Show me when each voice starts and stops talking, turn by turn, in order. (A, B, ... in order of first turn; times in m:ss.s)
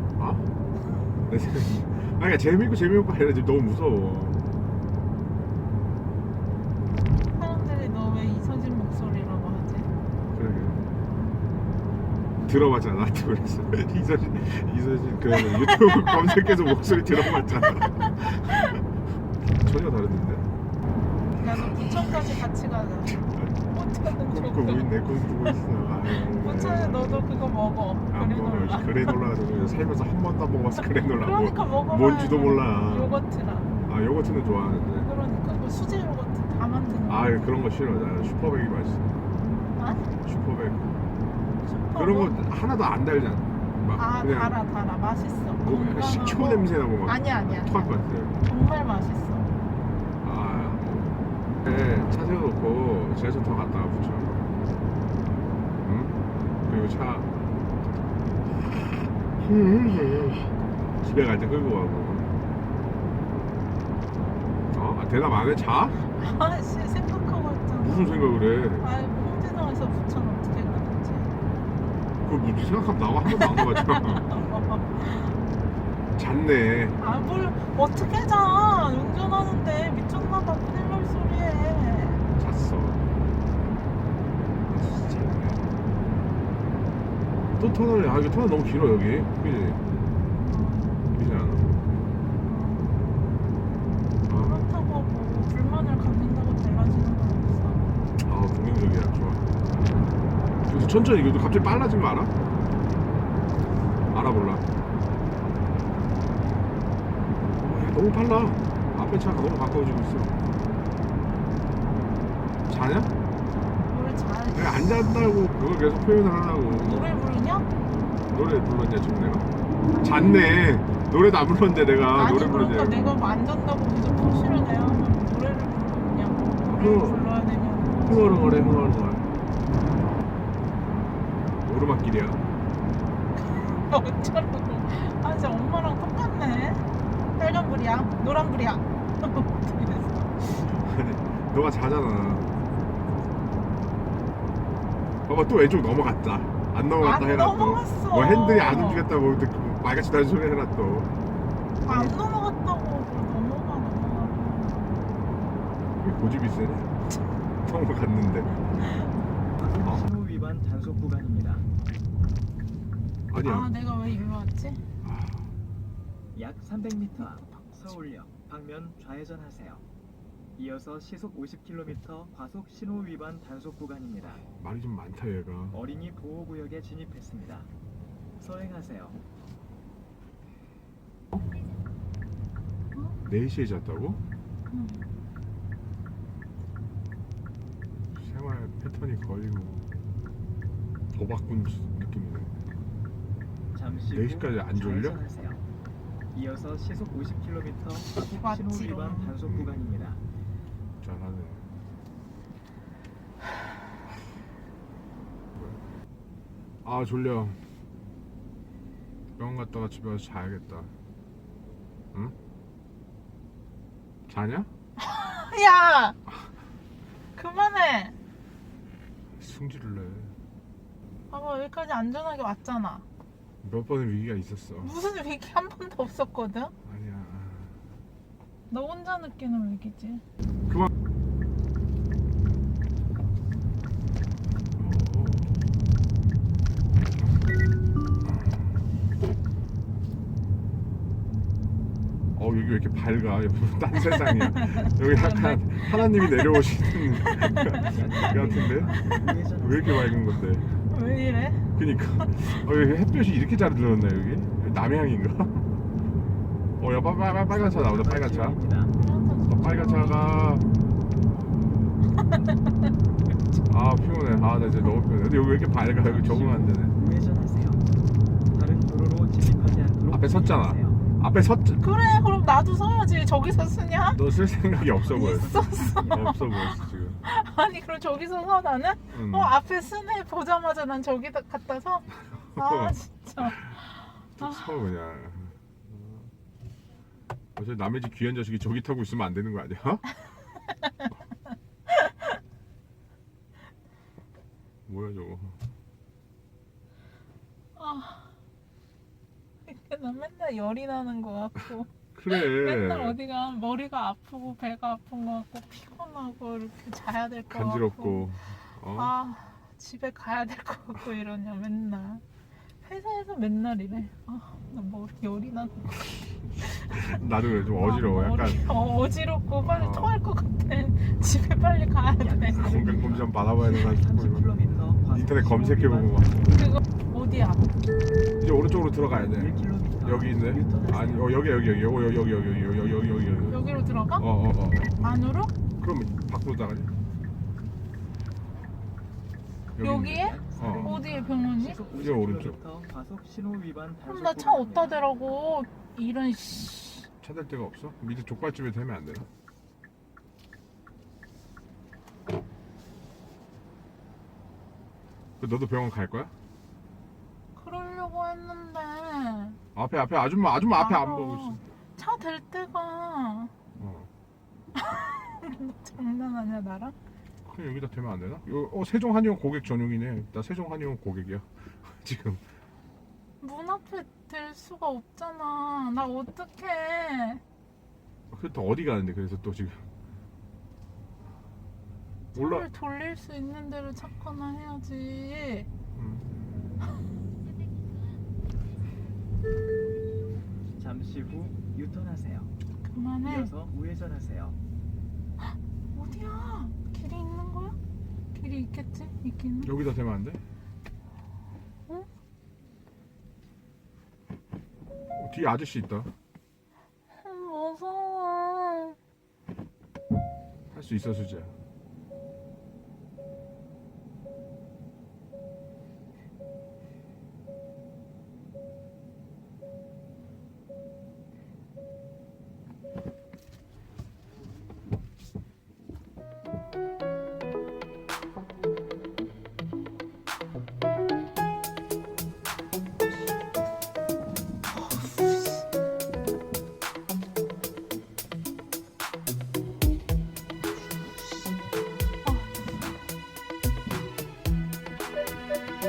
0:00.2-0:00.4 A
0:01.2-0:04.4 A
0:07.3-0:09.9 B
0:10.3-0:10.8 A
0:12.4-0:18.8 A
0:15.3-0:18.0 B
0:19.4-0:20.5 A
0:21.4-0:29.3 B
0:21.6-0:22.4 A
0:23.0-0:27.2 A
0:28.1-0:33.1 A
0:31.0-0:33.7 B
0:33.8-0:35.1 A
0:35.0-0:37.5 B
0:37.1-0:39.2 A
0:39.7-0:40.1 B
0:40.2-0:40.9 A
0:41.6-0:42.4 B
0:41.9-0:44.6 A
0:43.9-0:47.9 B
0:45.6-0:48.4 A
0:48.4-0:49.5 B
0:50.2-0:54.5 A
0:55.8-0:57.3 A
0:58.4-1:02.3 A
1:04.7-1:06.0 A
1:06.0-1:11.4 B
1:07.8-1:08.9 A
1:12.2-1:14.4 A
1:13.3-1:15.4 B
1:16.2-1:17.0 A
1:17.0-1:22.2 B
1:22.4-1:23.0 A
1:24.7-1:25.6 A
1:27.5-1:29.8 A
1:30.4-1:31.0 B
1:31.1-1:31.7 A
1:32.4-1:33.0 B
1:34.2-1:34.6 A
1:34.3-1:37.9 B
1:38.2-1:39.5 A
1:40.7-1:42.3 A
1:44.1-1:44.6 A
1:47.5-1:50.4 A
1:52.7-1:53.1 A
1:53.9-1:55.2 B
1:54.5-1:57.1 A
1:56.8-1:57.7 B
1:58.3-1:59.5 A
1:59.8-2:00.6 B
2:00.0-2:03.1 A
2:02.1-2:08.8 B
2:06.6-2:07.2 A
2:08.0-2:09.3 A
2:11.6-2:12.5 A
2:13.3-2:20.6 B
2:20.6-2:22.6 A
2:25.3-2:31.1 A
2:27.0-2:29.1 B
2:31.8-2:35.1 B
2:31.9-2:32.2 A
2:36.0-2:37.0 A
2:37.6-2:38.8 A
2:39.5-2:41.7 C
2:43.3-2:43.7 A
2:43.4-2:44.8 B
2:45.0-2:45.5 A
2:46.3-2:49.8 C
2:47.4-2:47.8 B
2:50.6-2:54.4 C
2:54.6-2:55.8 A
2:55.7-2:57.7 C
2:58.4-2:59.2 C
3:03.2-3:04.2 A
3:04.7-3:05.1 B
3:08.1-3:09.9 A
3:11.1-3:12.5 A
3:13.7-3:15.6 C
3:14.1-3:15.2 A
3:16.3-3:20.2 C
3:18.1-3:19.4 B
3:19.4-3:19.9 A
3:21.0-3:21.8 A
3:26.8-3:27.6 A
3:29.4-3:30.9 A
3:34.3-3:34.7 A
3:35.0-3:36.2 B
3:37.3-3:38.2 B
3:39.4-3:40.4 A
3:41.3-3:43.0 B
3:43.6-3:44.9 A
3:44.8-3:46.7 B
3:46.8-3:47.7 A
3:48.7-3:50.2 B
3:54.8-3:55.6 A
3:58.2-3:58.7 A
4:02.3-4:08.9 A
4:04.2-4:07.8 B
4:07.7-4:10.0 C
4:08.9-4:09.3 B
4:09.6-4:10.7 A
4:10.7-4:12.4 B
4:11.7-4:15.7 A
4:16.8-4:18.6 A
4:17.5-4:18.9 C
4:19.0-4:20.4 B
4:19.5-4:20.7 A
4:22.1-4:22.4 B
4:23.7-4:27.0 A
4:25.9-4:27.8 C
4:28.5-4:31.0 C
4:30.1-4:31.8 A
4:31.8-4:34.2 B
4:34.1-4:37.2 A
4:34.8-4:36.3 C
4:35.1-4:44.6 B
4:39.1-4:39.5 A
4:42.6-4:43.6 A
4:44.4-4:46.3 A
4:47.6-4:50.0 A
4:54.9-4:55.6 A
4:57.8-4:58.3 B
4:59.6-5:12.2 B
5:02.1-5:03.2 A
5:07.5-5:09.1 A
5:12.8-5:16.1 B
5:16.6-5:17.1 B
5:16.9-5:18.6 A
5:17.7-5:22.9 B
5:19.6-5:20.1 A
5:22.2-5:26.6 C
5:22.5-5:24.5 A
5:25.1-5:26.5 A
5:26.5-5:27.8 B
5:28.4-5:35.1 A
5:29.1-5:31.4 C
5:33.5-5:34.2 B
5:35.0-5:35.5 B
5:35.7-5:36.9 A
5:39.7-5:41.0 A
5:39.8-5:41.8 B
5:40.1-5:45.0 C
5:41.9-5:42.6 A
5:44.0-5:47.1 B
5:47.2-5:49.3 A
5:55.4-5:56.3 A
5:57.5-5:59.6 B
5:59.7-6:01.6 A
6:00.7-6:03.5 B
6:03.8-6:04.1 A
6:04.7-6:07.0 B
6:07.4-6:12.4 A
6:13.4-6:17.4 B
6:18.3-6:19.8 A
6:22.3-6:25.7 B
6:22.3-6:22.7 A
6:25.9-6:26.3 A
6:30.8-6:32.5 C
6:32.8-6:33.5 B
6:33.2-6:34.6 C
6:35.9-6:37.8 B
6:38.3-6:39.7 B
6:39.6-6:40.4 A
6:45.1-6:46.1 A
6:47.1-6:49.0 B
6:50.7-6:51.5 A
7:14.7-7:15.6 B
7:22.2-7:22.7 B